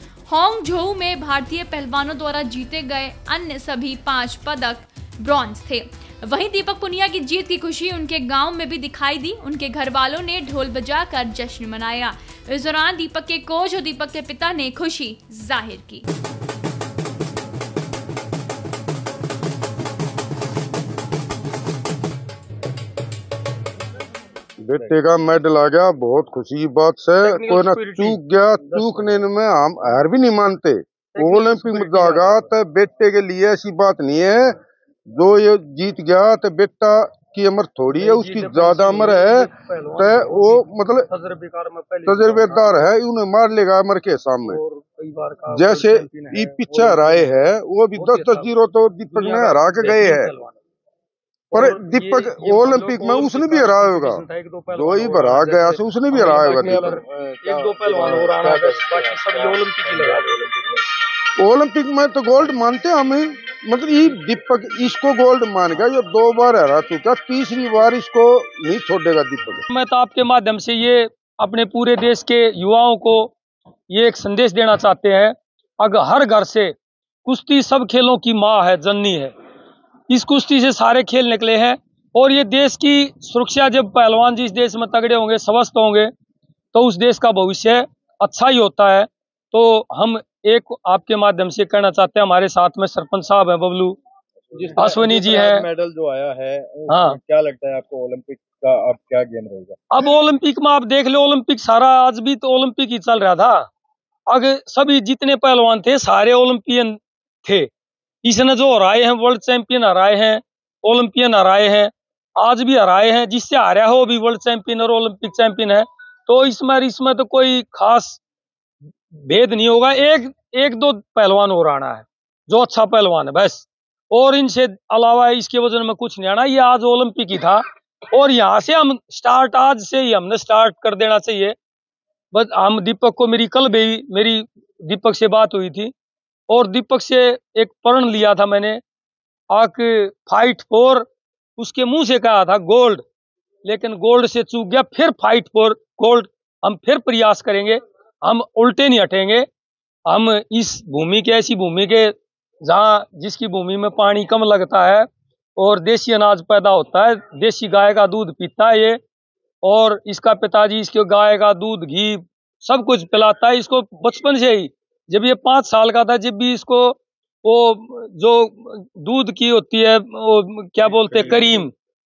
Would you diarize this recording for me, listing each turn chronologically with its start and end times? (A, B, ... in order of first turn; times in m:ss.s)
0:00.3-0:16.0 A
0:24.6-0:34.6 B
0:27.2-0:29.2 C
0:31.1-0:32.5 C
0:35.1-0:41.1 B
0:38.0-0:42.9 C
0:42.0-0:44.6 B
0:44.4-0:48.5 C
0:45.5-0:50.3 B
0:49.1-0:50.6 C
0:51.5-1:00.5 C
0:51.5-0:54.2 B
0:54.7-0:57.0 B
0:56.1-1:00.8 D
1:01.4-1:09.6 B
1:09.7-1:13.3 C
1:13.9-1:19.3 C
1:20.1-1:26.1 C
1:26.7-1:34.0 C
1:34.5-1:39.8 D
1:34.7-1:35.6 C
1:36.9-1:37.2 C
1:39.9-1:43.7 C
1:44.3-1:47.7 C
1:48.2-1:58.2 C
1:59.1-2:11.6 C
2:12.3-2:15.9 C
2:16.5-2:18.8 C
2:19.5-2:23.0 C
2:23.6-2:29.5 C
2:30.1-2:39.0 C
2:39.6-2:51.7 C
2:50.9-2:51.6 D